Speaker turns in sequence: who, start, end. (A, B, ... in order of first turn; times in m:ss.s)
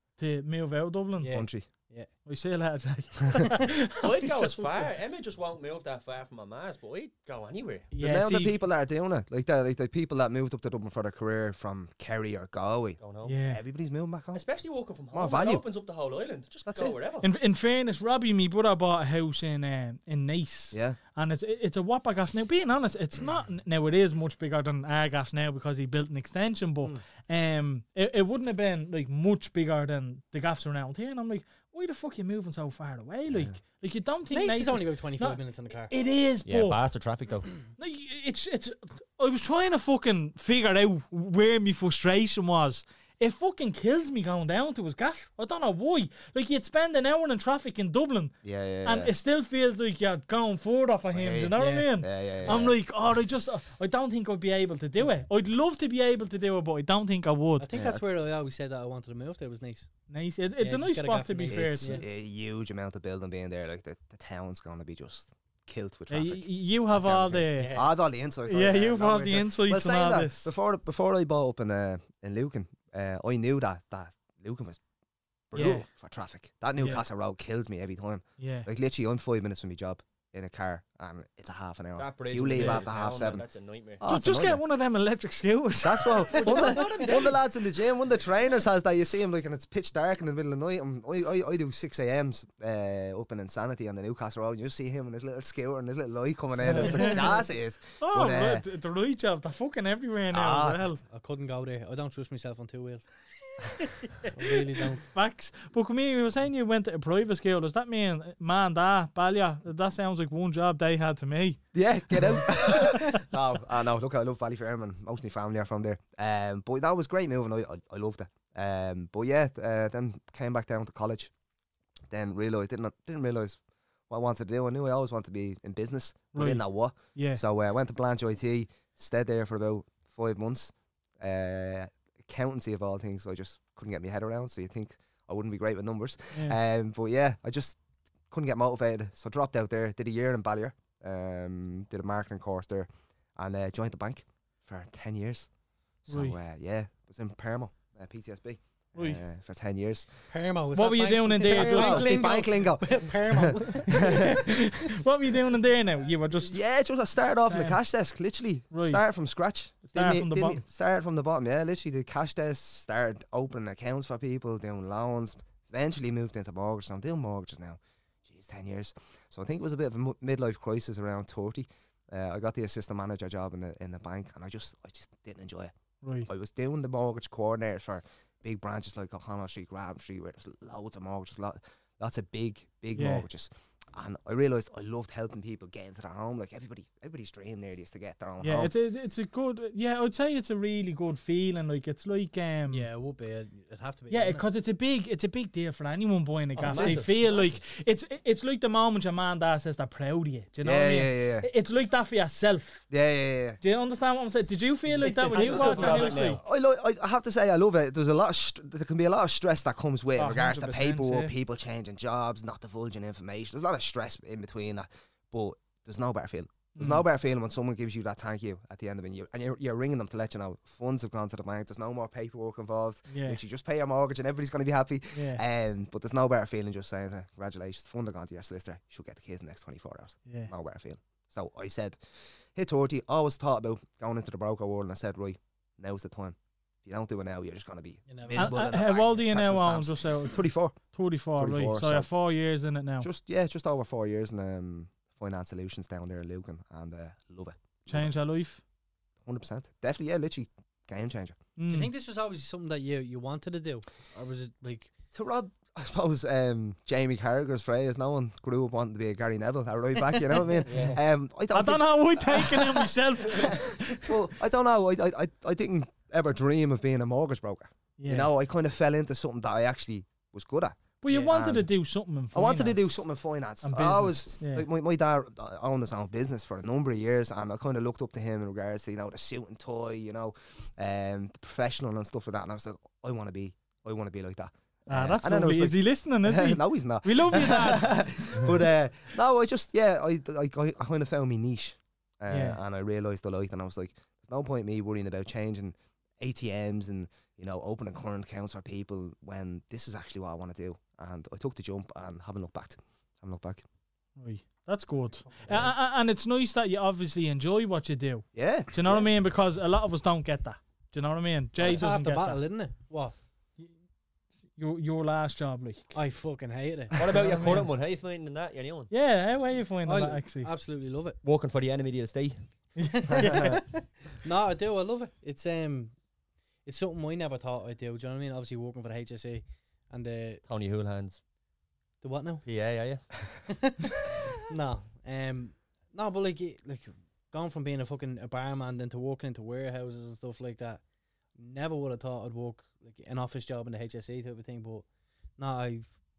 0:00.2-0:01.4 A
0:01.2-0:02.1 B
0:01.3-0:01.7 C
0:02.3-0:04.9 A
0:04.0-0:07.9 D
0:07.9-0:08.6 A
0:08.0-0:14.4 C
0:13.0-0:13.4 D
0:13.3-0:13.6 A
0:14.3-0:17.3 D
0:15.1-0:15.6 C
0:16.7-0:17.0 C
0:17.2-0:36.8 A
0:20.7-0:21.0 C
0:33.3-0:33.6 C
0:34.3-0:35.9 B
0:36.5-0:37.6 D
0:37.8-0:48.3 A
0:48.4-0:49.1 C
0:48.8-0:57.7 A
0:51.1-0:52.8 C
0:51.6-0:51.9 B
0:57.6-0:59.9 B
0:57.7-0:58.0 C
1:00.1-1:02.0 A
1:00.6-1:02.0 B
1:01.5-1:14.8 C
1:06.1-1:07.7 A
1:07.5-1:07.9 D
1:08.5-1:10.5 A
1:15.5-1:23.4 C
1:15.6-1:15.8 A
1:16.8-1:17.0 A
1:18.4-1:18.7 A
1:22.0-1:24.0 D
1:24.0-1:24.6 C
1:24.0-1:26.8 A
1:25.8-1:38.7 C
1:26.4-1:27.4 D
1:36.8-1:37.2 B
1:36.8-1:37.4 A
1:38.0-1:41.0 A
1:40.3-1:40.8 C
1:41.1-1:43.1 B
1:43.8-1:44.3 A
1:44.3-1:45.0 B
1:45.0-1:51.6 A
1:51.7-2:01.3 C
1:52.1-1:53.2 A
2:02.1-2:17.8 C
2:06.3-2:06.6 A
2:07.1-2:07.4 A
2:18.3-2:25.5 C
2:26.1-2:30.1 C
2:26.1-2:26.4 A
2:30.3-2:34.3 B
2:30.7-2:32.2 A
2:31.5-2:34.5 C
2:33.9-2:36.6 A
2:36.5-2:55.7 C
2:37.5-2:37.8 A
2:38.7-2:39.0 A
2:39.9-2:40.6 A
2:56.0-2:56.3 A
2:56.3-3:08.7 C
3:03.0-3:03.2 A
3:08.4-3:12.9 A
3:12.7-3:14.4 B
3:14.1-3:22.8 A
3:16.6-3:17.4 D
3:16.7-3:17.0 B
3:20.6-3:21.5 C
3:22.9-3:23.6 C
3:23.6-3:26.4 A
3:25.0-3:26.3 B
3:25.0-3:26.4 D
3:25.4-3:52.0 C
3:30.2-3:31.3 A
3:36.8-3:37.0 A
3:43.1-3:43.4 A
3:45.1-3:45.4 A
3:50.3-3:50.5 A
3:52.6-4:00.8 C
3:58.1-3:58.6 B
3:58.3-4:03.1 A
4:01.4-4:02.1 C
4:03.0-4:08.1 C
4:07.9-4:08.6 A
4:09.2-4:11.4 C
4:11.6-4:11.9 A
4:11.7-4:14.9 B
4:15.1-4:31.7 C
4:20.7-4:21.0 D
4:21.5-4:24.1 A
4:28.0-4:28.3 A
4:31.0-4:32.8 A
4:32.3-5:03.6 C
4:33.6-4:34.7 A
4:44.9-4:48.4 A
4:52.3-4:52.6 A
5:04.2-5:12.4 A
5:08.3-5:09.1 C
5:11.6-5:13.1 B
5:14.6-5:16.0 A
5:15.9-5:17.7 B
5:16.9-5:18.9 D
5:17.1-5:17.7 A
5:18.9-5:20.5 A
5:19.8-5:21.2 B
5:21.2-5:22.4 D
5:22.9-5:26.0 B
5:23.0-5:23.6 A
5:23.2-5:23.6 C
5:26.6-5:30.4 B
5:30.5-5:31.2 D
5:32.0-5:32.4 B
5:32.4-5:33.4 D
5:33.5-5:40.8 B
5:41.4-5:44.8 B
5:45.4-5:45.9 B